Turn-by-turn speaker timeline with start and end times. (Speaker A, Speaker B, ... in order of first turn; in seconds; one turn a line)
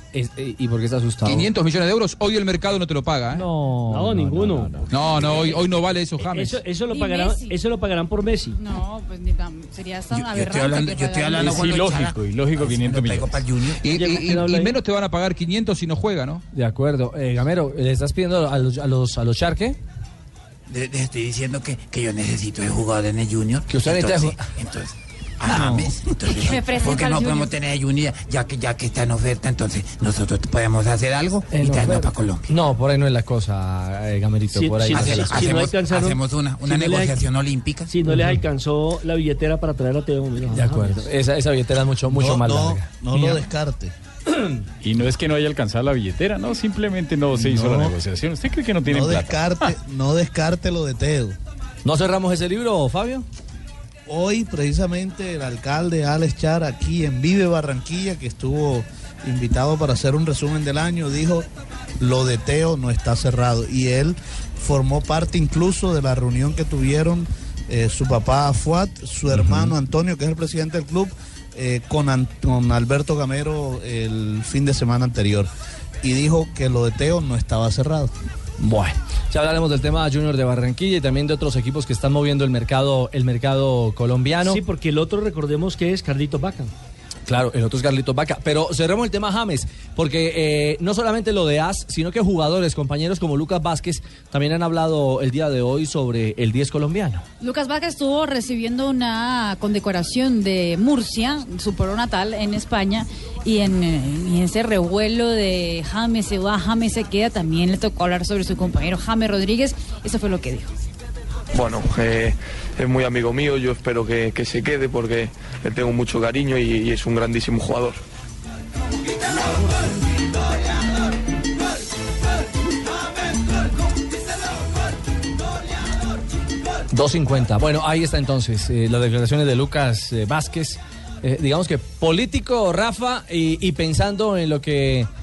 Speaker A: 0.1-1.5
Speaker B: 1.2-3.4
Speaker A: 3.3-5.0
Speaker C: 3.9-4.8
Speaker B: 4.9-6.6
Speaker D: 5.1-5.5
Speaker C: 6.2-8.6
Speaker D: 6.9-7.5
Speaker D: 8.6-11.7
Speaker E: 10.1-13.8
Speaker F: 11.4-13.4
Speaker B: 13.8-16.4
Speaker C: 13.9-14.8
Speaker A: 16.5-19.8
Speaker E: 20.7-32.5
Speaker A: 23.7-24.4
Speaker A: 25.4-25.9
Speaker D: 26.3-27.5
Speaker A: 31.5-35.5
Speaker C: 34.5-37.2
Speaker E: 34.9-37.9
Speaker C: 37.9-41.1
Speaker A: 40.5-43.4
Speaker G: 42.1-43.9
Speaker F: 44.8-49.5
Speaker A: 47.3-47.9
Speaker G: 48.9-51.4
Speaker A: 51.8-53.2
Speaker G: 54.0-61.5
Speaker G: 62.0-75.5
Speaker A: 69.3-69.7
Speaker G: 76.0-78.1
Speaker A: 78.6-84.6
Speaker C: 84.4-86.7
Speaker A: 87.3-97.2
Speaker D: 97.4-110.7
Speaker H: 111.5-118.0
Speaker A: 126.9-135.1